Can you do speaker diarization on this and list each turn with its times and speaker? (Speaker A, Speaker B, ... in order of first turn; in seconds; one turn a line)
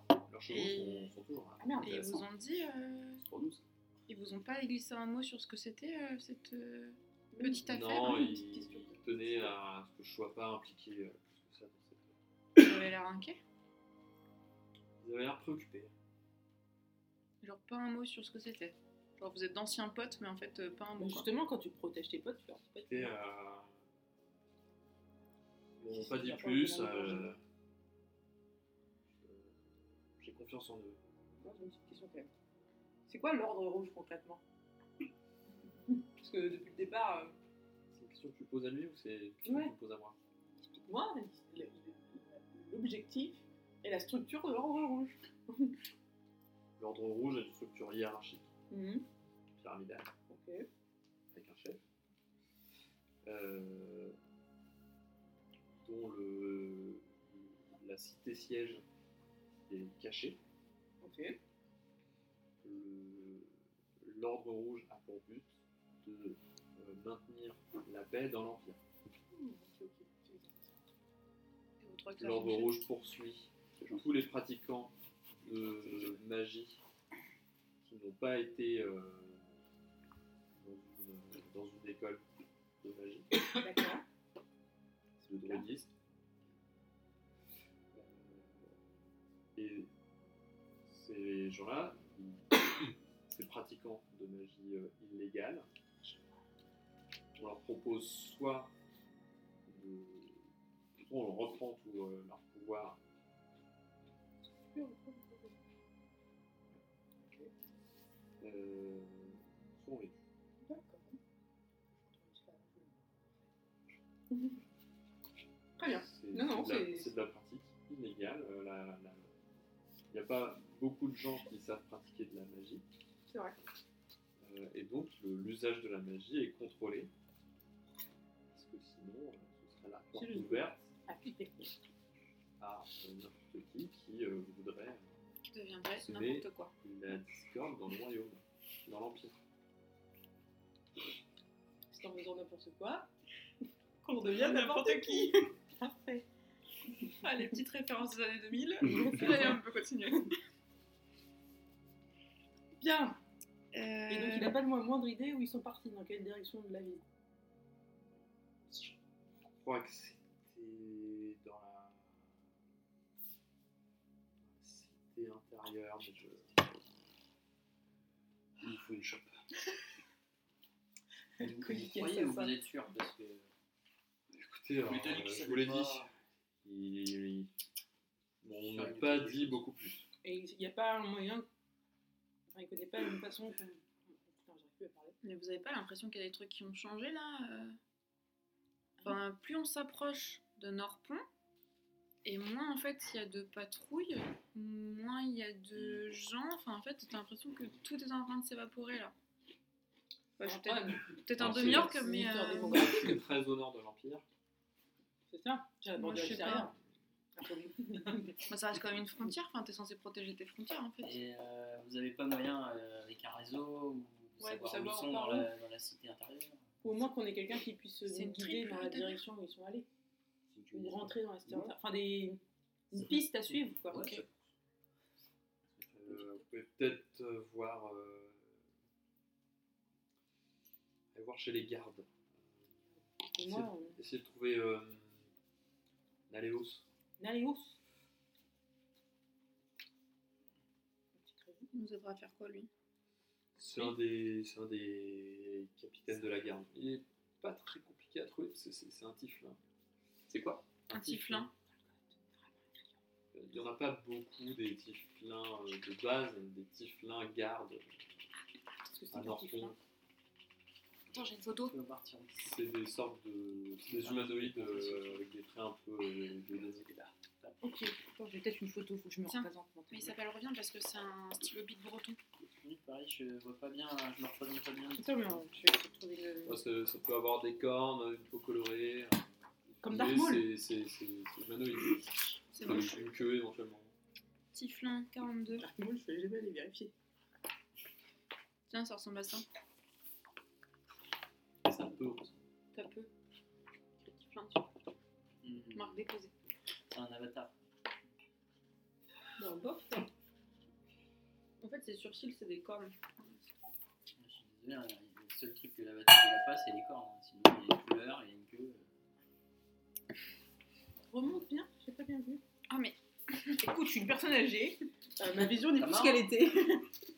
Speaker A: 0.3-2.2
Speaker B: 0.5-1.1
Speaker C: 1.6-2.2
Speaker B: 1.8-3.2
Speaker D: 3.2-3.6
Speaker B: 4.1-8.4
Speaker C: 7.3-9.5
Speaker A: 7.6-12.2
Speaker B: 12.6-13.4
Speaker A: 15.0-15.9
Speaker B: 17.4-21.3
Speaker C: 21.0-23.1
Speaker A: 22.9-23.8
Speaker A: 25.8-27.4
Speaker C: 25.9-27.3
Speaker A: 29.2-29.6
Speaker A: 30.2-31.0
Speaker C: 31.4-32.3
Speaker C: 33.1-34.4
Speaker C: 35.9-37.3
Speaker A: 37.9-40.2
Speaker C: 39.5-39.7
Speaker C: 40.7-45.8
Speaker A: 46.8-48.5
Speaker C: 48.7-49.0
Speaker A: 49.6-50.1
Speaker C: 50.3-50.7
Speaker A: 51.3-51.8
Speaker A: 53.2-54.2
Speaker A: 55.8-58.8
Speaker A: 59.7-60.4
Speaker C: 61.0-61.4
Speaker A: 62.6-68.8
Speaker C: 69.3-70.7
Speaker B: 71.8-72.8
Speaker A: 72.2-76.8
Speaker D: 73.8-74.1
Speaker A: 77.8-79.5
Speaker A: 80.5-82.2
Speaker A: 82.8-83.3
Speaker C: 83.6-84.0
Speaker A: 85.2-85.9
Speaker A: 87.9-88.7
Speaker A: 89.6-89.9
Speaker A: 90.9-92.5
Speaker A: 93.3-95.7
Speaker A: 97.4-98.7
Speaker A: 99.7-100.4
Speaker A: 101.0-103.0
Speaker C: 104.6-105.6
Speaker C: 107.2-107.5
Speaker A: 108.4-110.2
Speaker C: 110.6-111.2
Speaker C: 112.0-113.0
Speaker C: 114.3-114.6
Speaker C: 115.8-117.1
Speaker A: 116.0-119.3
Speaker A: 120.1-122.8
Speaker C: 123.3-123.6
Speaker A: 124.4-127.1
Speaker A: 128.5-130.9
Speaker C: 130.2-131.6
Speaker A: 132.6-135.1
Speaker B: 135.4-136.7
Speaker A: 136.0-139.4
Speaker C: 141.9-143.1
Speaker C: 144.0-146.3
Speaker B: 144.1-145.4
Speaker B: 147.2-150.4
Speaker C: 148.8-149.6
Speaker C: 152.8-153.2
Speaker B: 153.7-154.6
Speaker C: 154.1-157.0
Speaker A: 159.5-162.2
Speaker A: 164.5-166.8
Speaker D: 168.6-169.3
Speaker C: 171.4-172.5
Speaker E: 171.4-173.5
Speaker A: 174.3-176.1
Speaker D: 174.9-176.1
Speaker A: 176.6-177.5
Speaker A: 178.4-180.1
Speaker E: 178.6-179.6
Speaker C: 180.2-181.5
Speaker C: 182.5-185.2
Speaker B: 185.2-187.8
Speaker B: 189.0-191.2
Speaker B: 192.2-199.1
Speaker B: 200.4-203.0
Speaker C: 200.4-203.2
Speaker A: 201.4-201.9
Speaker A: 202.7-204.2
Speaker C: 205.3-206.8
Speaker B: 205.9-206.7
Speaker C: 207.4-208.4
Speaker B: 208.5-211.2
Speaker E: 211.0-216.7
Speaker C: 214.4-215.5
Speaker C: 216.8-219.9
Speaker B: 218.1-219.2
Speaker E: 220.6-221.7
Speaker C: 220.7-224.1
Speaker E: 223.0-224.3
Speaker E: 225.7-226.4
Speaker A: 225.9-228.6
Speaker A: 231.1-232.1
Speaker C: 233.4-234.0
Speaker A: 233.4-235.3
Speaker A: 236.3-236.8
Speaker C: 237.2-237.8
Speaker C: 241.2-241.7
Speaker B: 241.7-242.7
Speaker A: 243.6-249.6
Speaker D: 250.3-250.6
Speaker A: 250.9-251.5
Speaker B: 250.9-251.5
Speaker A: 253.3-257.9
Speaker C: 258.8-259.8
Speaker A: 259.1-259.8
Speaker B: 261.1-261.8
Speaker E: 261.7-262.5
Speaker A: 262.4-267.1
Speaker E: 263.9-265.3
Speaker C: 267.6-270.1
Speaker B: 269.3-272.2
Speaker E: 272.4-275.3
Speaker C: 275.0-276.6
Speaker A: 276.4-282.1
Speaker C: 279.8-280.5
Speaker B: 282.5-283.2
Speaker A: 282.6-283.9
Speaker B: 284.5-285.7
Speaker C: 285.6-286.9
Speaker B: 288.7-289.5
Speaker A: 291.7-292.3
Speaker D: 291.7-292.1
Speaker B: 292.7-293.1
Speaker B: 294.0-294.7
Speaker E: 295.4-296.0
Speaker B: 295.7-296.3
Speaker E: 296.9-297.5
Speaker B: 299.4-300.1
Speaker B: 301.6-303.4
Speaker E: 304.2-308.9
Speaker C: 311.1-312.4
Speaker B: 312.7-313.6
Speaker C: 313.6-316.9
Speaker E: 315.7-316.3